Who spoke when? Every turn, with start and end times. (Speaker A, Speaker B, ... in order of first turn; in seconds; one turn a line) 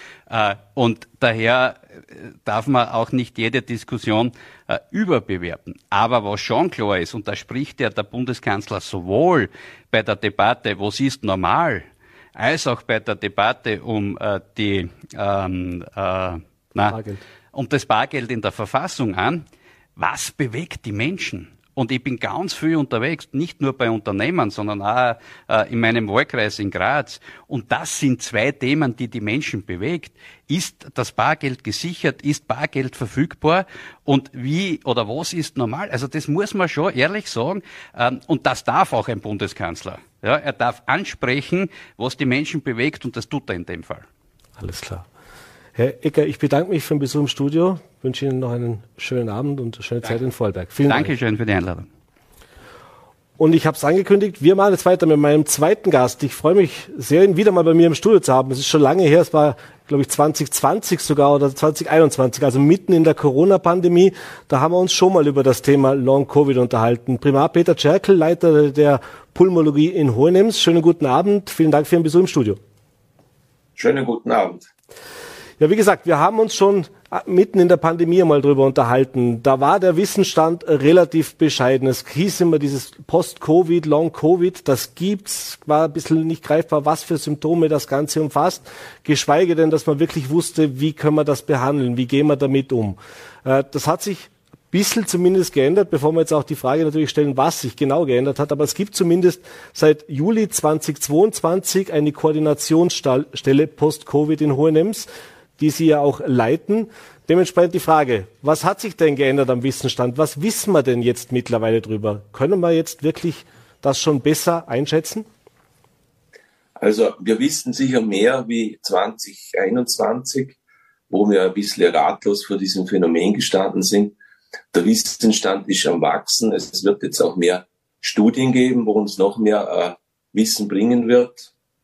Speaker A: 0.3-17.0
Speaker B: 16.9-17.2
Speaker A: 17.5-19.4
Speaker A: 20.0-44.1
Speaker B: 44.6-45.1
Speaker B: 45.8-51.1
Speaker A: 50.9-51.9
Speaker B: 53.4-72.6
Speaker C: 73.8-74.7
Speaker B: 75.6-105.1
Speaker B: 105.6-115.3
Speaker C: 116.8-120.6
Speaker C: 121.1-124.2
Speaker C: 124.7-131.5